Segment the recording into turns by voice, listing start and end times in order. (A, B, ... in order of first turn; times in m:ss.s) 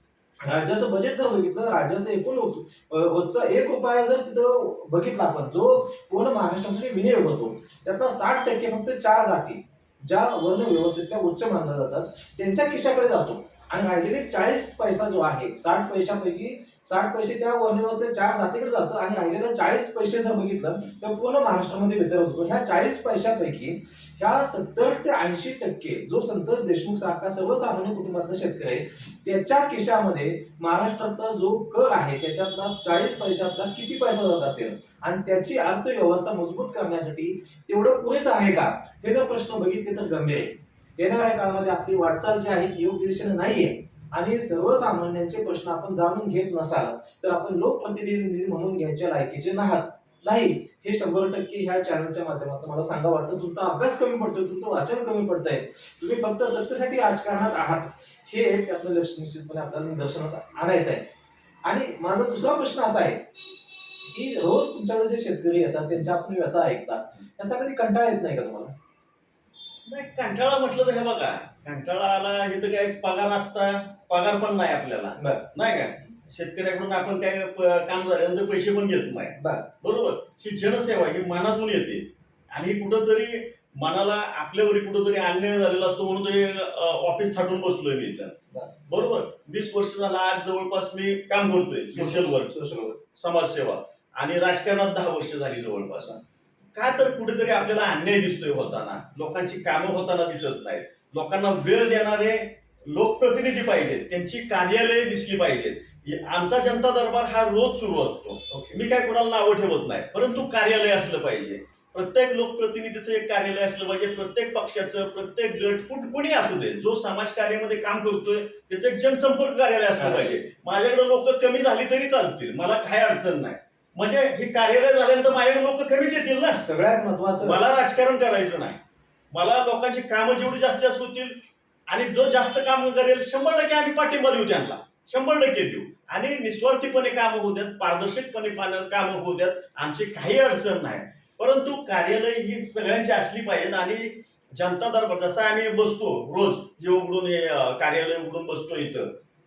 0:00.4-1:01.1 A
1:01.6-1:03.3 A
1:04.0-1:08.7 A
1:09.8-1:28.4 B
1:15.2-1:15.5 A
1:19.4-1:19.7 A
1:28.9-1:32.5 B
1:31.9-1:33.0 A
1:33.2-1:36.2 B
1:36.7-2:06.6 B
1:48.5-1:48.8 A
2:00.0-2:00.4 A
2:06.6-2:07.6 A
2:07.4-2:08.8 B
2:09.3-2:29.2 B